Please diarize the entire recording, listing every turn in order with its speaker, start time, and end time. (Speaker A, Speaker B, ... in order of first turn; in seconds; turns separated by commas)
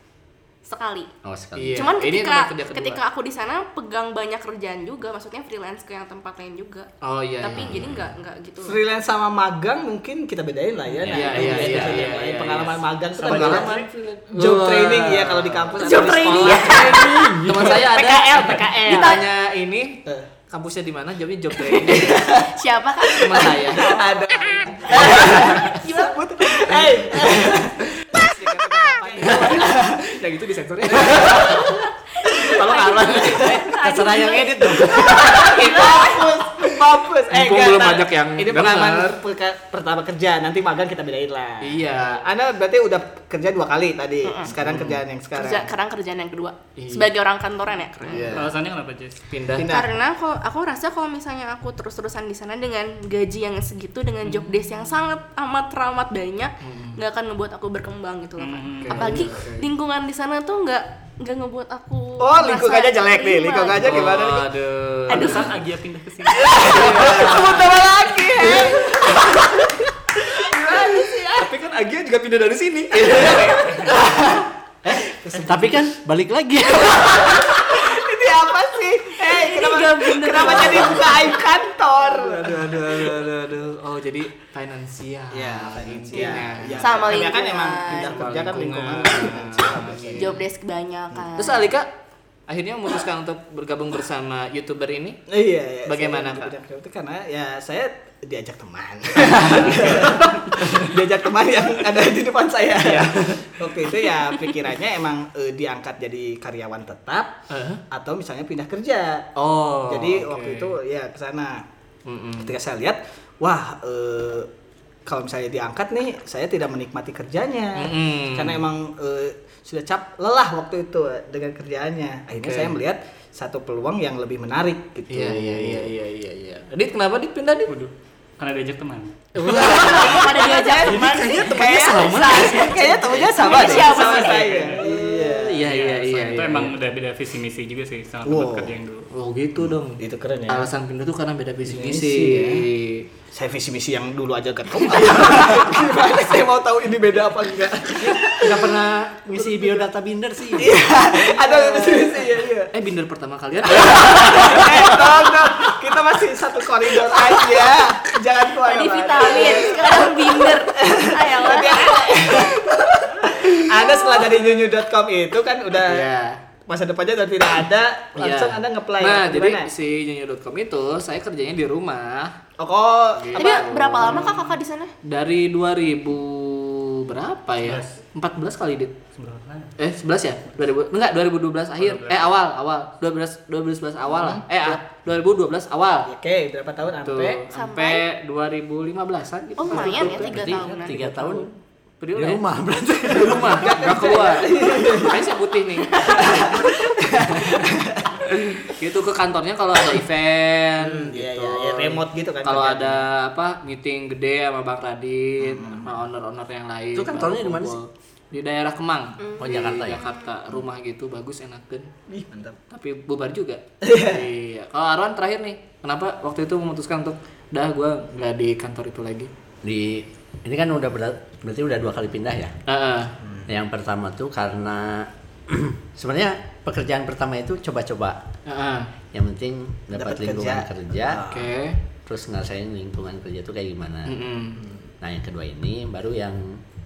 Speaker A: 0.7-1.1, Speaker B: 1.2-1.9, Speaker C: 1.6-3.0, Speaker A: 1.7-6.9, Speaker C: 7.0-7.8, Speaker A: 7.4-8.8, Speaker B: 7.5-8.2, Speaker D: 8.6-13.8, Speaker B: 11.0-12.2, Speaker C: 11.1-22.2, Speaker E: 13.3-13.9, Speaker B: 13.3-13.6, Speaker D: 14.3-19.1, Speaker A: 15.8-17.3, Speaker B: 16.7-17.8, Speaker A: 18.8-19.2, Speaker A: 21.7-23.8, Speaker D: 21.9-22.5, Speaker D: 23.1-30.0, Speaker C: 23.2-23.9, Speaker C: 24.9-25.6, Speaker A: 25.7-27.0, Speaker C: 27.2-27.4, Speaker C: 29.2-31.8, Speaker D: 30.9-32.6, Speaker A: 31.6-36.3, Speaker C: 32.5-33.7, Speaker D: 33.1-33.6, Speaker B: 33.7-35.6, Speaker D: 34.7-45.7, Speaker C: 37.3-39.2, Speaker C: 41.6-42.2, Speaker A: 44.2-44.5, Speaker C: 44.6-45.0, Speaker A: 45.3-48.4, Speaker C: 46.8-47.1, Speaker C: 48.0-48.5, Speaker E: 48.2-49.2, Speaker C: 49.3-49.7, Speaker D: 49.5-49.9, Speaker A: 49.6-64.2, Speaker C: 54.2-54.5, Speaker C: 56.6-57.0, Speaker E: 58.4-59.3, Speaker C: 58.8-59.7, Speaker D: 62.2-64.5, Speaker C: 63.8-65.5, Speaker A: 65.1-65.6, Speaker E: 65.1-67.2, Speaker D: 66.3-71.5, Speaker C: 66.6-69.0, Speaker C: 71.3-74.0, Speaker A: 73.5-73.8, Speaker D: 73.9-75.8, Speaker C: 75.3-75.7, Speaker B: 75.5-77.5, Speaker D: 76.8-83.2, Speaker A: 79.2-81.4, Speaker C: 82.0-87.1, Speaker D: 85.3-90.3, Speaker A: 86.1-88.3, Speaker C: 87.9-90.5, Speaker A: 90.2-91.7, Speaker C: 91.4-91.9, Speaker C: 92.5-95.2, Speaker D: 95.3-107.3, Speaker C: 95.9-96.5, Speaker C: 99.4-100.8, Speaker C: 102.8-103.6, Speaker C: 107.5-107.8, Speaker D: 107.9-109.3, Speaker C: 109.4-110.8, Speaker D: 109.9-111.7, Speaker C: 112.1-112.5, Speaker D: 112.4-114.5, Speaker D: 115.1-125.9, Speaker C: 117.8-118.6, Speaker C: 122.3-122.8, Speaker C: 125.1-127.7, Speaker E: 127.7-129.1, Speaker C: 129.3-136.7, Speaker D: 129.6-135.6, Speaker A: 130.0-131.6, Speaker A: 133.1-134.8, Speaker E: 133.8-139.1, Speaker D: 138.2-138.8, Speaker C: 139.1-143.1, Speaker D: 139.7-140.7, Speaker D: 141.7-142.6, Speaker D: 143.3-148.8, Speaker B: 148.1-150.8, Speaker D: 149.4-149.7, Speaker D: 150.6-152.7, Speaker C: 151.1-154.7, Speaker D: 153.7-166.1, Speaker A: 158.6-162.6, Speaker A: 163.7-164.3, Speaker C: 165.8-166.4, Speaker D: 166.7-169.7, Speaker C: 168.2-172.4, Speaker D: 172.6-173.5, Speaker C: 173.2-178.9, Speaker A: 173.3-174.9, Speaker E: 179.2-179.8, Speaker C: 179.8-186.1, Speaker E: 181.8-182.4, Speaker D: 184.1-184.4, Speaker D: 186.1-187.4, Speaker C: 187.0-191.5, Speaker A: 187.5-188.1, Speaker A: 189.6-191.0, Speaker B: 189.7-191.5, Speaker C: 192.0-192.4, Speaker B: 192.2-193.9, Speaker C: 193.1-196.4, Speaker D: 193.1-195.2, Speaker A: 195.9-196.6, Speaker D: 195.9-198.7, Speaker C: 198.6-211.9, Speaker D: 200.8-203.1, Speaker D: 205.4-205.9, Speaker B: 206.9-207.8, Speaker A: 209.2-210.3, Speaker B: 209.4-210.1, Speaker D: 212.1-212.6, Speaker C: 212.7-219.3, Speaker D: 213.8-214.2, Speaker B: 219.6-222.5, Speaker C: 222.7-223.1, Speaker B: 223.5-228.2, Speaker C: 228.5-228.9, Speaker B: 229.1-231.2, Speaker D: 229.9-231.5, Speaker C: 231.3-231.8, Speaker B: 232.1-234.2, Speaker C: 234.1-234.7, Speaker B: 235.0-236.6